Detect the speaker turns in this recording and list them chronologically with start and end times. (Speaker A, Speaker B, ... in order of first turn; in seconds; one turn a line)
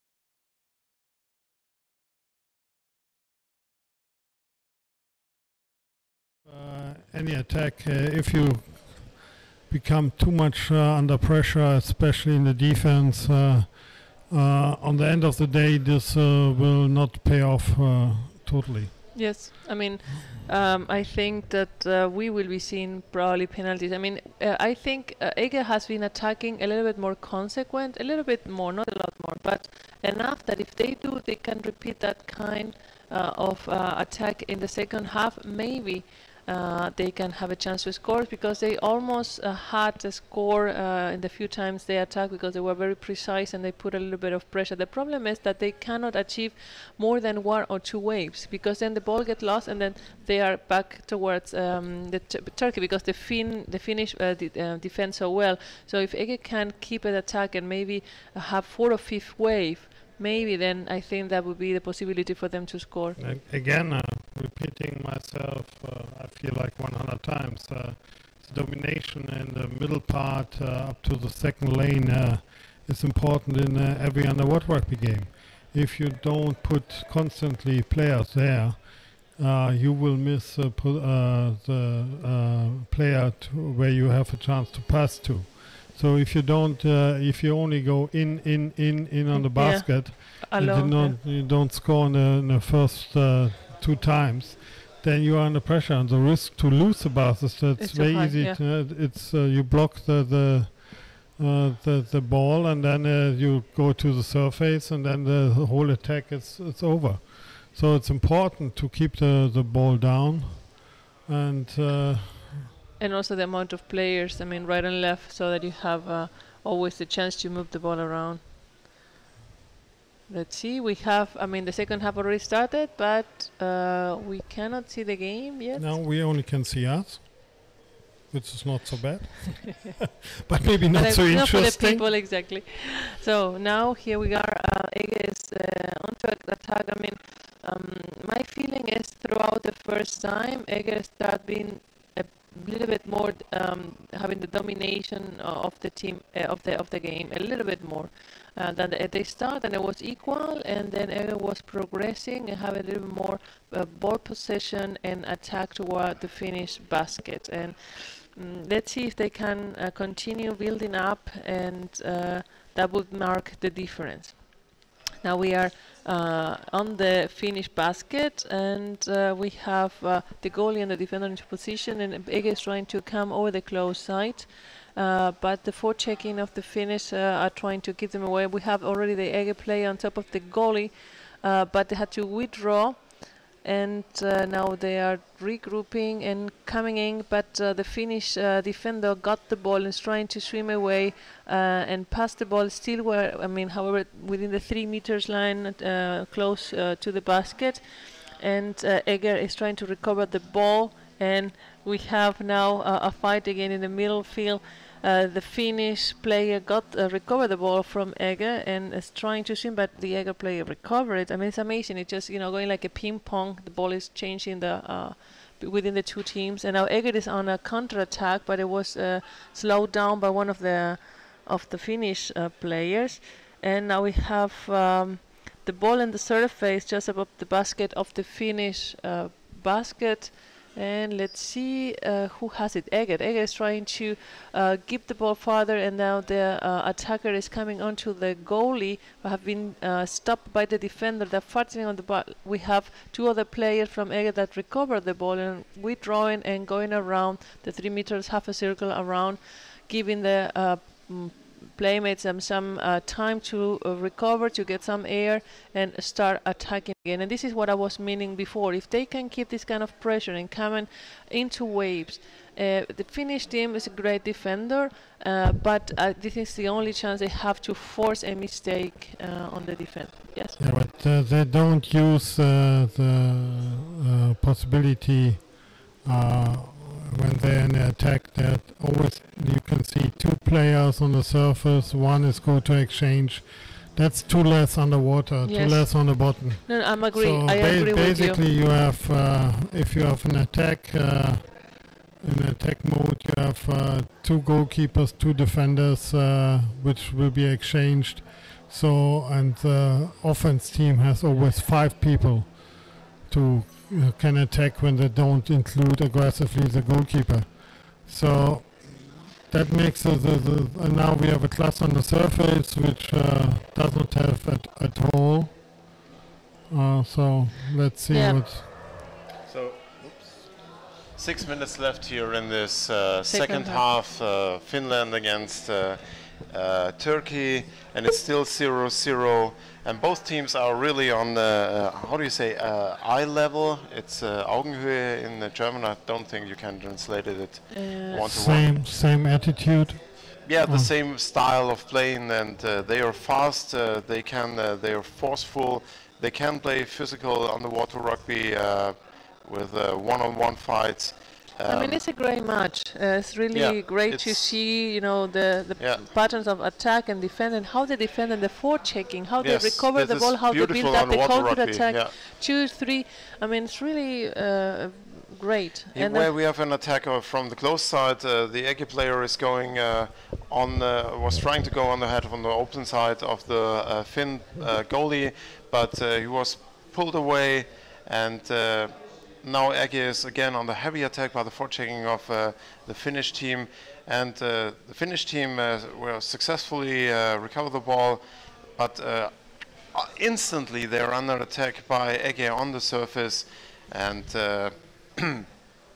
Speaker A: 6.4-19.2
Speaker B: 19.1-63.2
Speaker A: 63.2-112.7
Speaker B: 89.3-91.2
Speaker B: 97.8-98.6
Speaker B: 113.0-118.4
Speaker B: 120.3-125.9
Speaker A: 125.7-127.6
Speaker A: 128.3-132.0
Speaker B: 130.9-164.4
Speaker B: 165.2-270.6
Speaker A: 270.6-315.6
Speaker B: 285.4-288.4
Speaker A: 316.7-318.7
Speaker B: 318.1-318.4
Speaker C: 319.5-320.5
Speaker C: 321.1-338.8
Speaker B: 323.3-323.8
Speaker B: 337.7-338.3
Speaker A: 338.2-340.9
Speaker C: 340.4-352.0
Speaker B: 351.7-366.3
Speaker C: 353.5-354.5
Speaker C: 359.4-362.1
Speaker C: 365.9-388.2
Speaker C: 388.8-395.5